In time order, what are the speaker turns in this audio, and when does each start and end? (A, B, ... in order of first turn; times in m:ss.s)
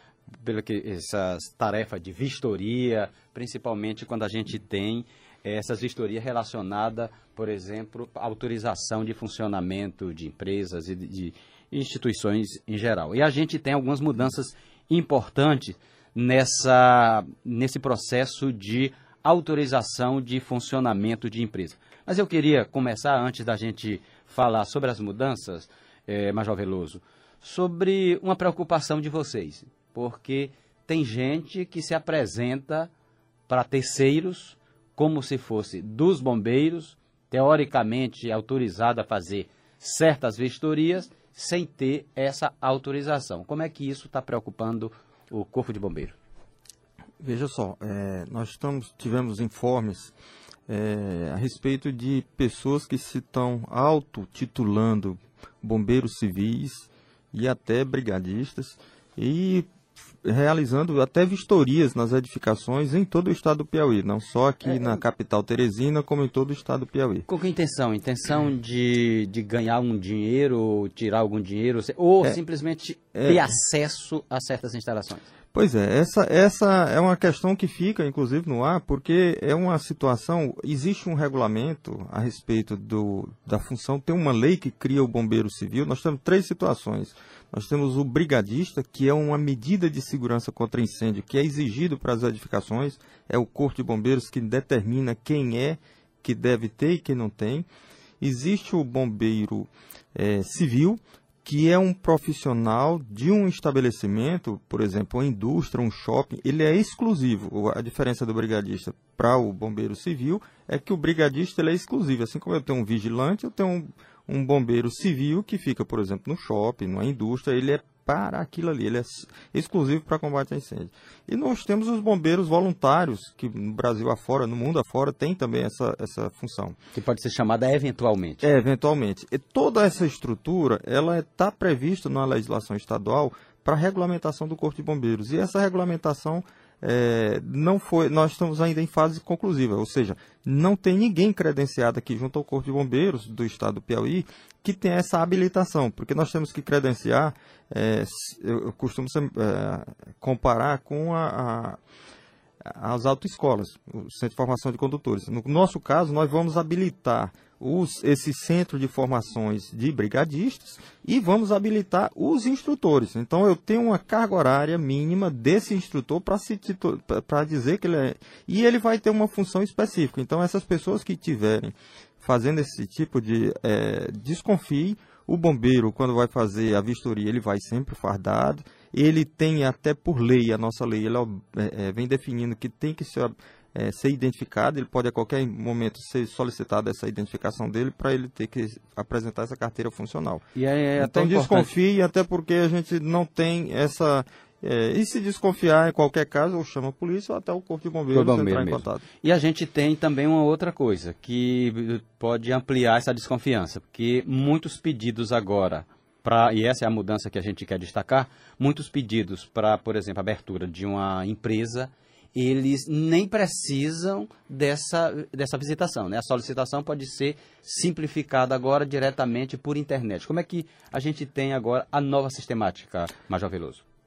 0:00.4-0:32.9 A
0:33.5-0:46.2 A
0:47.2-0:50.1 B
0:50.7-0:59.7 B
1:00.2-1:07.2 B
1:07.3-1:15.2 A
1:13.1-1:13.5 B
1:15.5-1:37.7 B
1:38.2-2:06.8 B
2:06.9-2:08.4 A
2:08.4-2:31.8 B
2:32.6-3:10.4 B
3:10.5-3:11.7 A
3:11.0-3:19.0 B
3:18.1-3:43.8 A